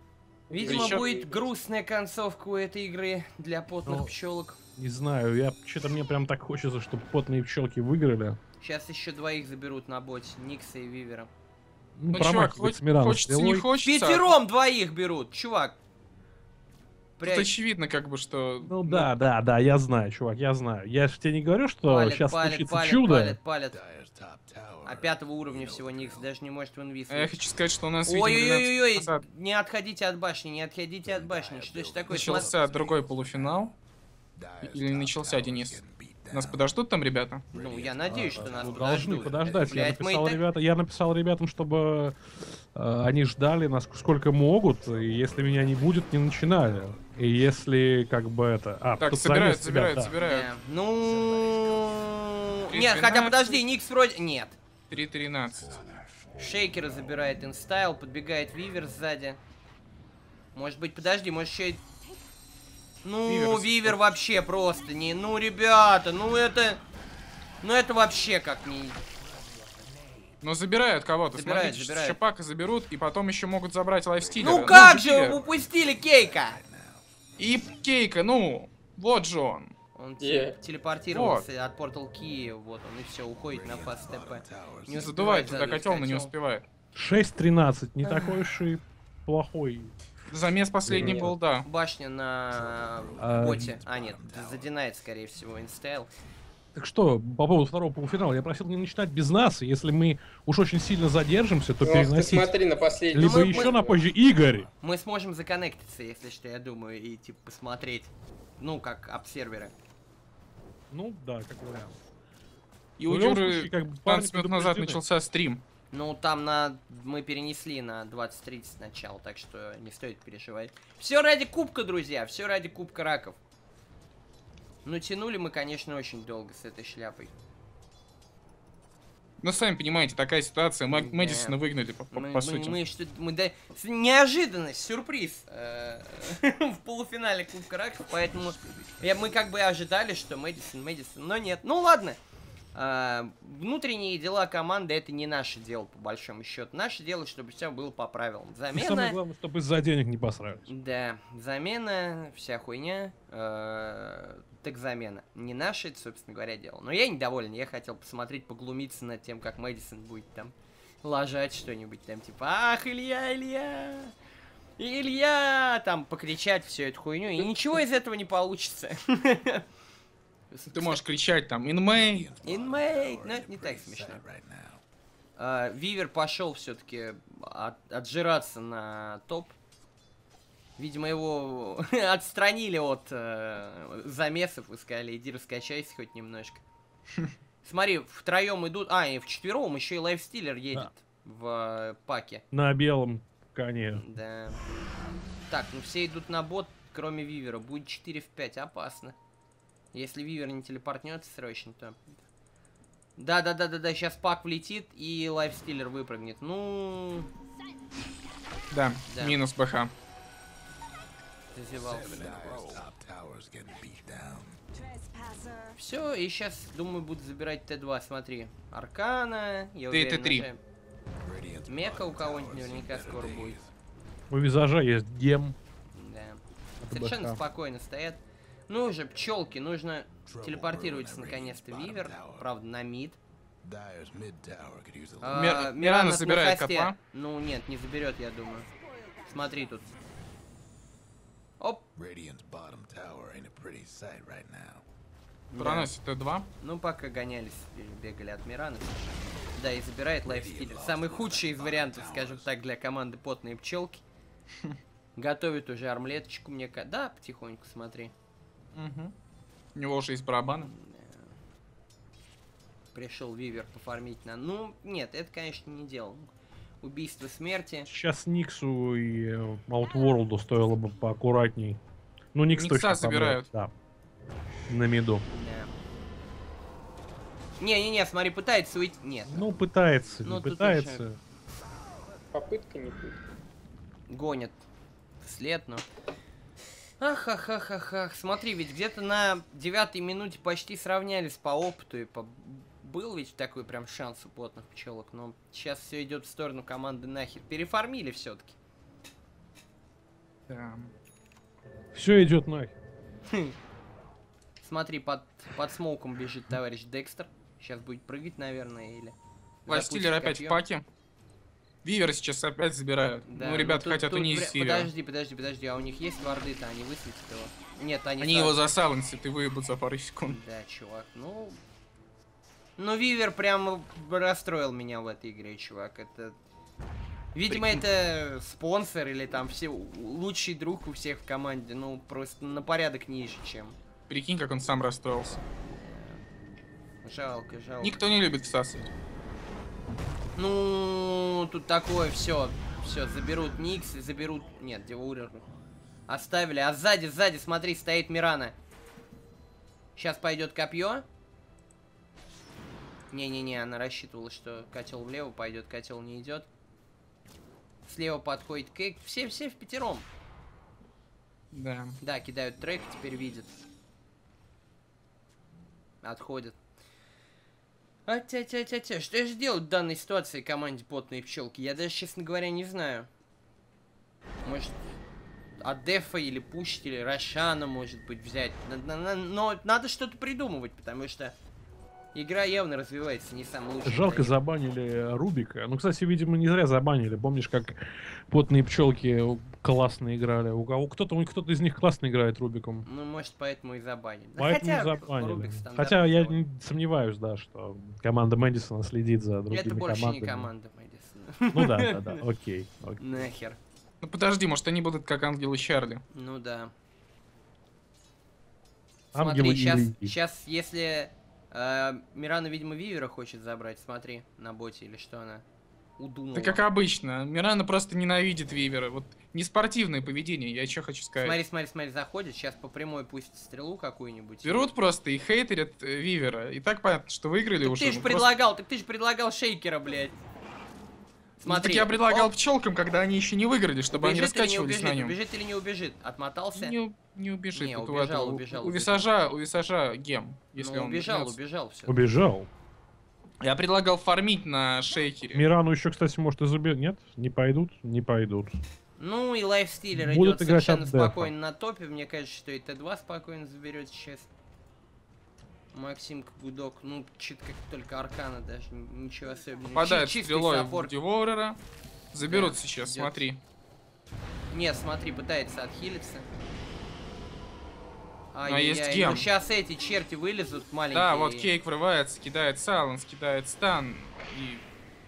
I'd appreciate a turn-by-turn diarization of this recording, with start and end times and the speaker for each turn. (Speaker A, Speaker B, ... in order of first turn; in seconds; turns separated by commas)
Speaker A: 0.5-4.6, Speaker B: 0.5-1.4, Speaker C: 0.6-1.1, Speaker D: 3.8-4.1, Speaker D: 4.8-8.4, Speaker A: 8.6-11.3, Speaker D: 11.9-13.7, Speaker C: 12.1-14.3, Speaker A: 13.8-15.8, Speaker A: 17.2-17.5, Speaker C: 17.2-19.3, Speaker D: 18.6-23.4, Speaker A: 21.9-23.8, Speaker E: 23.7-26.3, Speaker A: 24.8-27.4, Speaker C: 27.1-29.2, Speaker A: 28.1-32.5, Speaker E: 31.0-33.7, Speaker C: 32.1-33.7, Speaker E: 34.4-36.6, Speaker C: 34.6-35.8, Speaker C: 36.3-37.4, Speaker E: 37.5-40.0, Speaker A: 37.5-40.4, Speaker D: 38.1-50.1, Speaker E: 45.0-45.7, Speaker C: 49.0-50.5, Speaker A: 50.2-54.6, Speaker C: 52.7-53.6, Speaker C: 54.9-55.8, Speaker E: 55.6-55.9, Speaker A: 56.4-59.4, Speaker A: 60.5-61.8, Speaker A: 63.0-66.8, Speaker C: 63.3-64.0, Speaker A: 67.6-69.0, Speaker C: 70.4-75.4, Speaker A: 71.3-72.2, Speaker E: 74.2-77.0, Speaker A: 74.4-76.6, Speaker C: 77.4-79.7, Speaker A: 79.9-86.3, Speaker B: 80.2-80.5, Speaker C: 81.1-81.5, Speaker E: 83.5-85.1, Speaker C: 84.9-86.7, Speaker D: 86.9-89.9, Speaker A: 88.0-88.4, Speaker C: 90.3-91.7, Speaker D: 90.8-91.3, Speaker A: 91.0-96.1, Speaker E: 92.5-94.7, Speaker D: 93.2-93.7, Speaker D: 96.7-102.5, Speaker B: 101.8-104.1, Speaker D: 103.1-104.7, Speaker A: 103.2-103.8, Speaker A: 104.8-109.7, Speaker D: 110.9-112.0, Speaker C: 113.0-115.6, Speaker D: 113.1-115.0, Speaker A: 115.9-123.4, Speaker A: 124.8-127.3, Speaker C: 129.4-132.8, Speaker A: 130.9-131.6, Speaker A: 132.1-142.2, Speaker E: 138.6-138.9, Speaker A: 142.7-149.2, Speaker D: 148.7-150.7, Speaker A: 150.7-164.1, Speaker A: 164.8-169.6, Speaker A: 170.5-171.0, Speaker C: 170.7-172.3, Speaker E: 171.9-174.8, Speaker A: 172.4-174.2, Speaker A: 175.4-179.6, Speaker A: 180.8-186.6, Speaker A: 187.6-192.4, Speaker D: 192.5-194.0, Speaker A: 194.0-194.6, Speaker A: 195.5-199.2, Speaker A: 199.9-202.2, Speaker A: 203.2-207.3, Speaker C: 208.7-209.9, Speaker A: 209.1-209.4, Speaker A: 211.5-212.8, Speaker E: 211.7-214.6, Speaker A: 215.7-220.6, Speaker C: 219.9-220.5, Speaker E: 221.2-223.7, Speaker A: 221.7-223.6, Speaker D: 224.3-225.6, Speaker A: 225.9-233.2, Speaker D: 226.8-227.4, Speaker E: 230.2-232.5, Speaker E: 233.6-235.5, Speaker A: 235.2-239.9, Speaker C: 235.3-236.9, Speaker E: 241.9-244.8, Speaker A: 245.5-245.9, Speaker C: 245.6-246.5, Speaker A: 246.6-254.0, Speaker E: 250.2-252.5, Speaker A: 255.2-258.1, Speaker C: 258.7-259.1, Speaker C: 259.7-260.7, Speaker A: 260.6-261.3, Speaker A: 262.9-267.9, Speaker D: 267.9-271.8, Speaker D: 272.3-273.7, Speaker C: 272.5-273.5, Speaker D: 274.7-275.2, Speaker A: 275.3-275.7, Speaker A: 277.6-279.5, Speaker D: 279.3-281.2, Speaker A: 280.2-281.0, Speaker B: 282.3-283.2, Speaker A: 284.1-284.6, Speaker A: 285.2-285.8, Speaker A: 287.0-298.6, Speaker C: 300.5-300.9, Speaker D: 301.9-302.7, Speaker A: 303.3-303.6, Speaker A: 304.6-310.6, Speaker C: 309.7-310.8, Speaker C: 311.8-314.9, Speaker A: 313.3-318.6, Speaker C: 318.2-320.4, Speaker A: 320.3-321.6, Speaker A: 322.8-326.4, Speaker A: 327.3-333.8, Speaker C: 327.5-327.8, Speaker C: 334.1-335.4, Speaker A: 335.6-336.2, Speaker A: 337.0-338.0, Speaker C: 337.8-338.8, Speaker A: 340.4-345.4, Speaker A: 346.1-348.5, Speaker A: 349.9-351.1, Speaker A: 353.1-356.5, Speaker A: 357.8-360.1, Speaker C: 361.5-362.0, Speaker A: 362.0-363.6, Speaker A: 366.0-366.6, Speaker A: 368.1-373.1, Speaker A: 374.4-374.8, Speaker A: 375.6-381.3, Speaker A: 382.1-384.3, Speaker D: 383.8-392.9, Speaker A: 392.8-396.4, Speaker D: 394.4-400.5, Speaker A: 399.5-402.2, Speaker D: 401.5-403.3, Speaker A: 403.0-403.6, Speaker C: 404.0-406.0, Speaker A: 406.1-406.7, Speaker D: 409.1-410.1, Speaker A: 409.1-415.4, Speaker A: 416.0-416.6, Speaker C: 416.3-421.4, Speaker A: 421.2-424.7, Speaker C: 424.4-428.3, Speaker A: 427.6-430.1, Speaker A: 431.4-432.3, Speaker C: 431.4-435.1, Speaker A: 433.9-436.7, Speaker C: 436.5-441.4, Speaker A: 437.5-439.1, Speaker A: 440.6-442.0, Speaker D: 441.9-442.5, Speaker C: 443.4-445.5, Speaker D: 445.3-448.6, Speaker A: 449.0-454.3, Speaker D: 449.9-451.3, Speaker A: 455.7-460.9, Speaker C: 459.7-461.6, Speaker C: 462.1-463.4, Speaker A: 462.2-463.2, Speaker A: 464.5-466.3, Speaker A: 468.3-471.5, Speaker C: 468.4-469.3, Speaker C: 470.9-474.6